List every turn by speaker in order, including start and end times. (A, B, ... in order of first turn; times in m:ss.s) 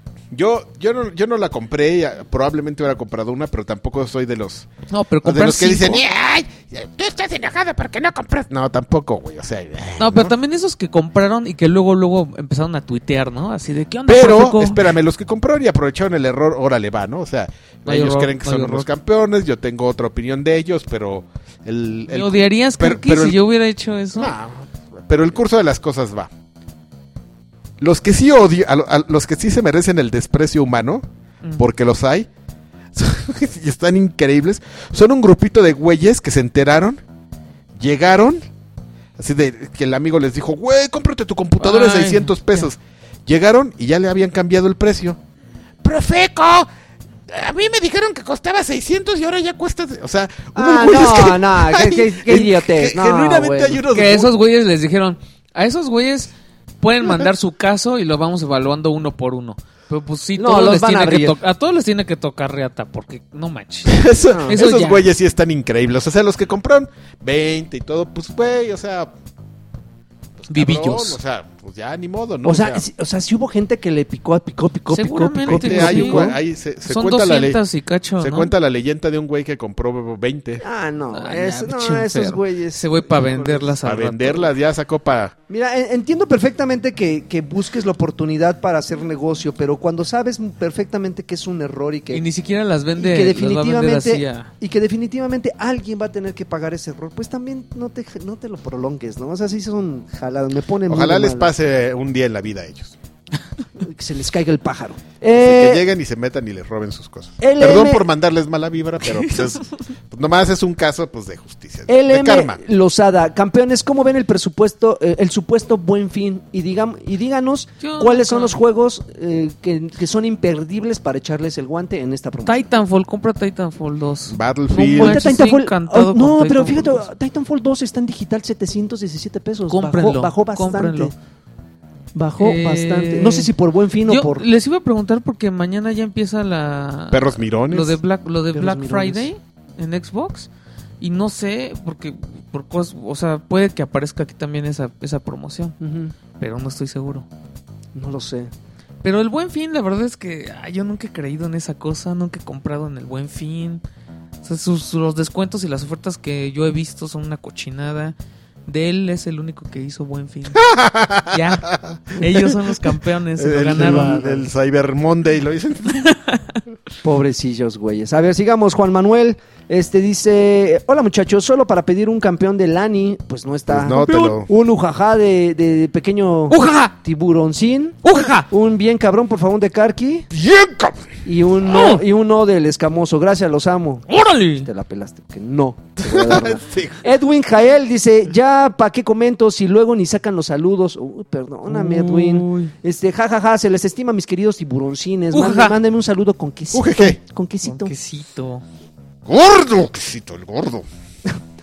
0:00.3-0:04.7 A
0:04.9-0:06.0 B
0:05.2-0:10.3 A
0:10.0-0:14.9 B
0:14.1-0:23.4 A
0:17.9-0:18.9 B
0:22.1-0:24.3 B
0:24.2-0:26.3 A
0:27.8-0:31.0 A
0:31.6-0:32.3 A
0:32.9-0:37.0 A
0:37.8-0:38.4 A
0:39.2-0:45.2 A
0:41.6-0:42.7 B
0:45.8-0:46.7 A
0:47.3-0:54.3 A
0:50.6-0:53.8 C
0:53.9-1:05.1 B
1:00.4-1:01.4 C
1:03.9-1:09.1 A
1:04.2-1:04.6 C
1:10.5-1:12.8 A
1:10.5-1:11.2 B
1:12.4-1:16.4 C
1:14.9-1:16.3 B
1:15.4-1:17.6 A
1:16.9-1:18.5 B
1:18.2-1:20.6 A
1:20.6-1:23.8 C
1:21.1-1:24.5 B
1:23.8-1:25.4 A
1:25.5-1:32.2 C
1:32.1-1:34.5 B
1:33.0-1:41.5 C
1:40.9-1:43.0 A
1:43.8-1:45.8 C
1:45.4-1:52.6 A
1:47.4-1:48.0 C
1:51.9-2:02.6 C
1:57.8-1:58.6 B
2:02.4-2:07.1 B
2:04.3-2:05.2 A
2:04.9-2:11.1 C
2:09.7-2:11.1 B
2:12.2-2:14.4 C
2:12.4-2:13.5 B
2:14.0-2:20.5 B
2:17.1-2:18.0 A
2:18.5-2:19.3 C
2:21.0-2:25.8 B
2:25.8-2:26.2 C
2:26.4-2:27.3 B
2:28.0-2:28.5 C
2:29.0-2:33.8 B
2:34.4-2:40.7 B
2:40.6-2:42.6 A
2:41.3-2:44.3 B
2:43.4-2:46.0 A
2:43.7-2:44.5 C
2:45.9-2:46.6 B
2:47.0-3:00.3 C
2:53.7-2:54.5 A
2:54.0-2:54.4 B
2:56.5-2:56.9 B
2:58.0-2:58.5 B
3:00.3-3:01.1 A
3:01.2-3:04.1 C
3:01.7-3:02.0 B
3:04.1-3:04.7 B
3:04.6-3:17.9 C
3:06.0-3:07.0 A
3:11.7-3:12.7 B
3:15.3-3:15.8 B
3:16.7-3:17.2 A
3:17.6-3:18.6 B
3:19.3-3:20.9 A